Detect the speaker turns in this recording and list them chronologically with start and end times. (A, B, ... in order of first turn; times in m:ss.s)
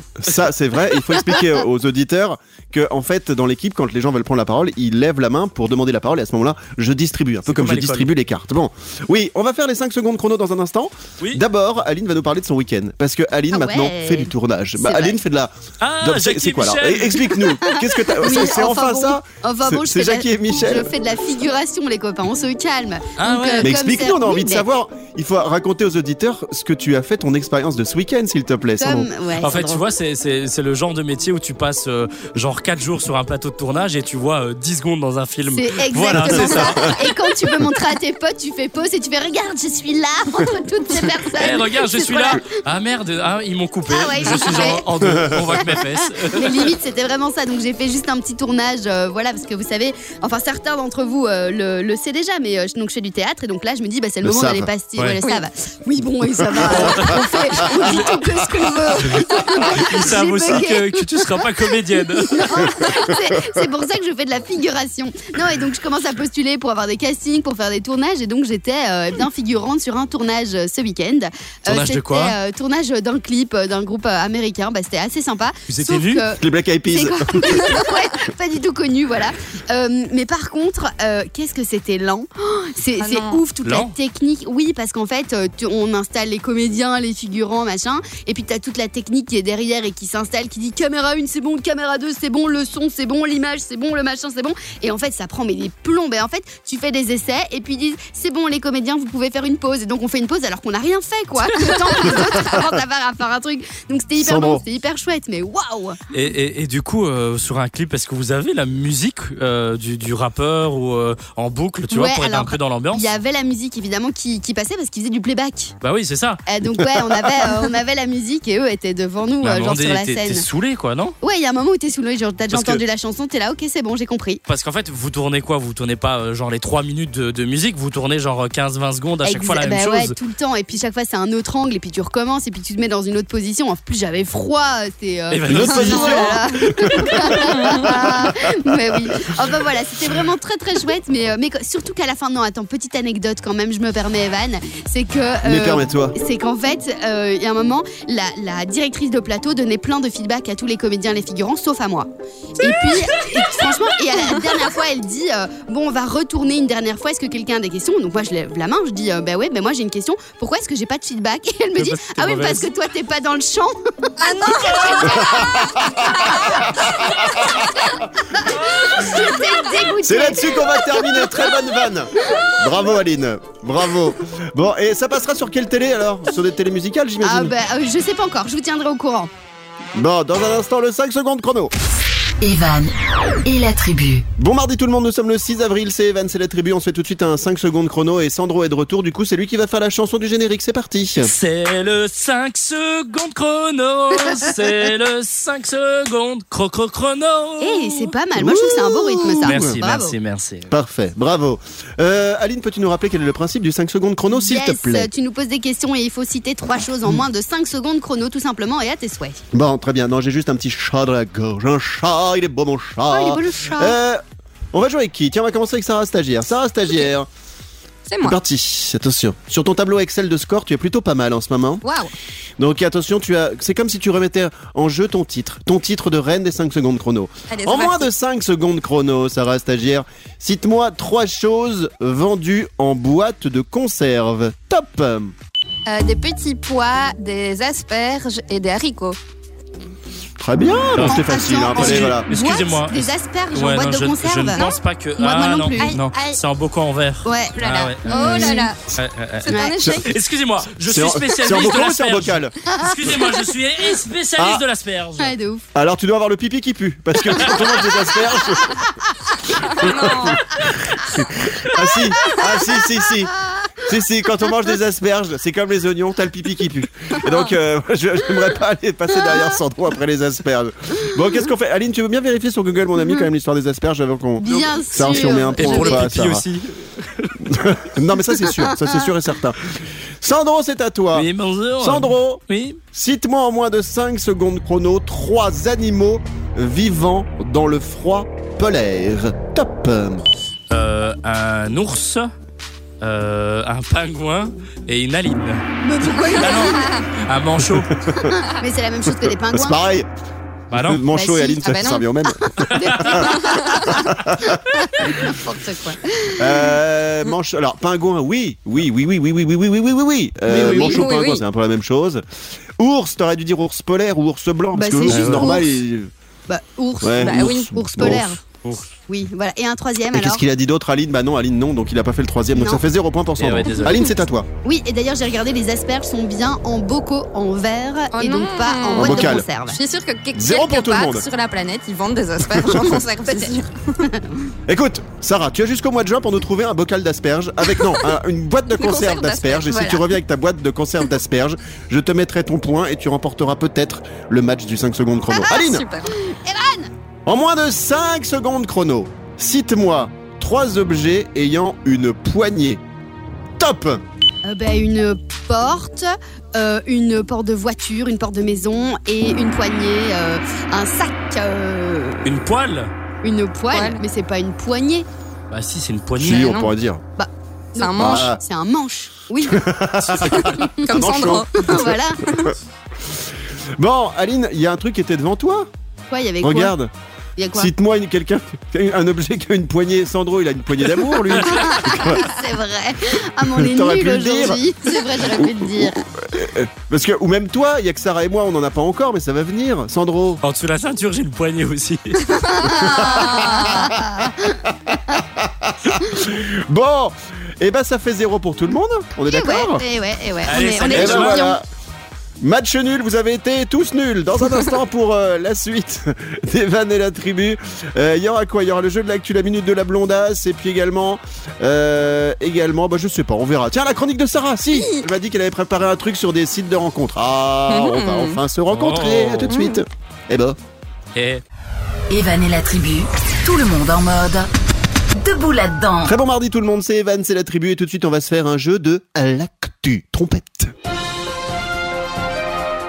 0:00.2-0:20.9 A
0:07.4-0:08.1 B
0:13.5-0:15.2 C
0:15.8-0:17.5 B
0:17.6-0:24.7 C
0:23.2-0:23.7 B
0:23.6-0:29.1 A
0:28.8-0:29.8 C
0:29.4-0:37.0 B
0:35.5-0:42.4 C
0:41.4-0:46.7 B
0:43.9-0:44.8 C
0:45.0-0:45.6 A
0:45.5-1:01.5 C
0:54.2-0:54.7 A
0:55.0-0:55.4 B
0:56.6-0:57.1 A
0:56.6-0:58.2 B
0:59.1-1:03.1 B
1:02.2-1:46.0 C
1:11.7-1:12.4 B
1:15.7-1:16.2 B
1:16.4-1:17.8 A
1:23.0-1:23.4 D
1:23.6-1:23.9 B
1:41.7-1:42.2 B
1:44.2-1:44.6 A
1:46.1-1:53.0 B
1:51.9-1:55.7 C
1:55.8-1:56.4 B
1:56.5-2:00.4 C
1:59.4-2:01.2 B
2:01.2-2:04.4 C
2:02.5-2:02.8 B
2:04.5-2:10.1 B
2:09.2-2:47.2 C
2:15.3-2:16.4 B
2:15.5-2:19.4 A
2:15.8-2:16.2 D
2:25.4-2:26.2 A
2:41.8-2:42.7 B
2:44.2-2:45.6 D
2:45.0-2:47.9 A
2:48.4-2:51.4 C
2:50.0-2:57.5 A
2:57.2-2:59.3 C
2:59.9-3:01.7 A
3:02.4-3:02.9 E
3:03.4-3:04.3 E
3:04.4-3:11.3 A
3:11.2-3:18.1 B
3:17.6-3:20.2 C
3:18.4-3:19.8 A
3:19.3-3:20.7 B
3:20.7-3:25.1 A
3:24.3-3:29.4 C
3:29.5-3:34.2 A
3:33.1-3:34.0 C
3:34.7-3:37.3 A
3:38.1-3:38.4 D
3:38.2-3:41.8 A
3:41.8-3:42.1 D
3:42.6-3:55.3 A
3:47.5-3:48.1 D
3:55.9-3:59.2 D
4:00.4-4:02.2 A
4:00.9-4:01.2 B
4:01.0-4:06.0 C
4:01.8-4:15.3 B
4:05.8-4:06.3 D
4:07.2-4:08.7 C
4:07.6-4:08.8 D
4:09.4-4:10.1 D
4:09.5-4:09.8 C
4:10.8-4:12.6 A
4:12.7-4:13.2 C
4:14.4-4:14.6 A
4:15.2-4:15.6 C
4:15.8-4:18.8 A
4:19.6-4:20.4 D
4:19.7-4:36.4 A
4:22.2-4:22.6 C
4:34.4-4:36.0 C
4:35.6-4:37.5 B
4:37.4-4:41.3 A
4:41.1-4:42.8 B
4:41.8-4:42.4 A
4:42.9-4:50.3 A
4:50.7-4:52.3 B
4:53.0-4:57.9 B
4:55.8-4:57.0 C
4:56.7-4:57.0 D
4:57.6-4:58.4 A
4:58.2-4:59.8 C
4:59.2-5:00.1 A
5:00.7-5:01.0 B
5:00.7-5:04.8 A
5:01.1-5:06.8 C
5:01.6-5:02.0 D
5:02.7-5:03.2 B
5:03.4-5:03.8 D
5:06.4-5:12.2 A
5:10.5-5:11.0 C
5:10.5-5:11.4 D
5:12.8-5:16.1 A
5:14.8-5:15.8 C
5:15.1-5:15.6 B
5:16.5-5:18.4 C
5:17.0-5:18.4 A
5:17.2-5:17.7 D
5:19.1-5:20.4 C
5:20.1-5:24.5 A
5:22.5-5:22.8 C
5:23.4-5:24.1 B
5:24.6-5:29.8 C
5:28.1-5:34.1 D
5:28.9-5:29.4 A
5:30.3-5:31.2 A
5:32.4-5:33.0 A
5:34.7-5:45.9 A
5:38.7-5:40.1 D
5:45.3-5:46.1 D
5:46.1-5:46.9 C
5:47.2-5:52.8 A
5:53.6-5:54.0 A
5:54.4-6:02.3 C
6:02.2-6:02.9 B
6:03.2-6:05.1 C
6:03.7-6:04.0 D
6:05.5-6:06.6 B
6:06.2-6:07.0 A
6:06.3-6:06.7 D
6:07.2-6:09.7 C
6:07.8-6:08.3 D
6:08.0-6:08.4 A
6:09.4-6:12.6 A
6:10.3-6:10.9 C
6:10.4-6:12.4 D
6:11.5-6:12.5 C
6:13.8-6:15.7 A
6:16.1-6:16.8 C
6:16.4-6:16.9 A
6:17.4-6:17.7 C
6:17.5-6:22.3 A
6:21.4-6:26.0 C
6:23.4-6:24.6 A
6:25.2-6:30.4 A
6:30.4-6:32.9 B
6:32.5-6:34.6 C
6:32.6-6:39.9 A
6:39.2-6:41.6 C
6:40.4-6:41.5 B
6:40.9-6:41.6 A
6:42.4-7:00.6 A
6:54.7-6:55.0 D
6:57.7-6:58.4 D
6:58.7-6:59.6 B
6:59.5-6:59.8 D
7:01.1-7:01.4 B
7:02.1-7:04.5 E
7:05.2-7:06.2 E
7:06.0-7:10.7 A